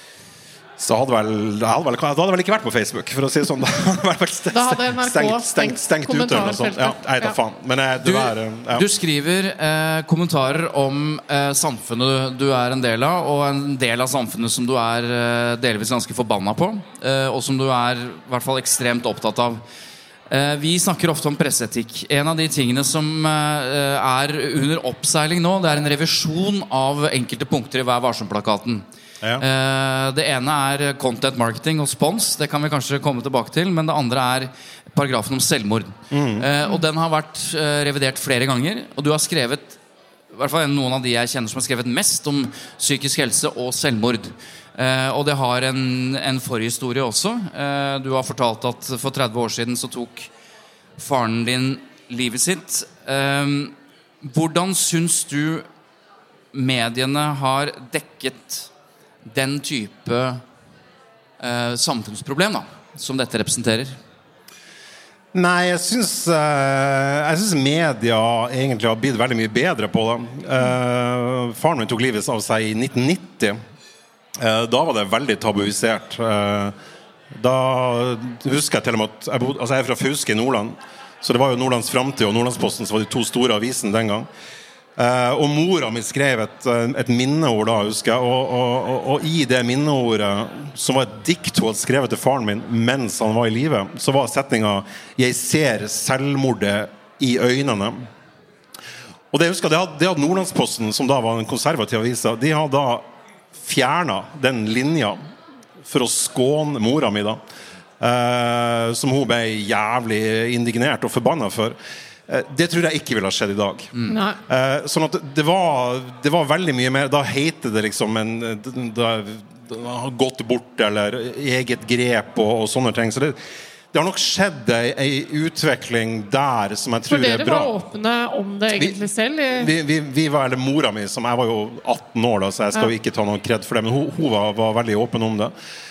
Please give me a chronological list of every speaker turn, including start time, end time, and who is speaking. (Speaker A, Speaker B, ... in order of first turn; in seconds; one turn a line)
Speaker A: 0.8-8.9
Speaker B: 4.5-7.3
Speaker C: 8.0-19.6
Speaker C: 20.3-28.8
Speaker C: 29.4-39.8
Speaker A: 36.1-36.5
Speaker C: 40.3-50.3
Speaker C: 51.0-55.6
Speaker C: 56.5-58.7
Speaker C: 59.3-60.4
Speaker C: 61.4-64.0
Speaker A: 65.3-73.6
Speaker A: 74.4-76.7
Speaker A: 77.3-84.3
Speaker A: 85.0-98.1
Speaker A: 99.3-103.0
Speaker A: 103.6-105.2
Speaker A: 105.8-107.4
Speaker A: 108.0-111.8
Speaker A: 112.3-113.9
Speaker B: 114.1-114.4
Speaker A: 114.5-123.4
Speaker A: 123.9-127.7
Speaker B: 127.1-129.7
Speaker A: 129.5-135.5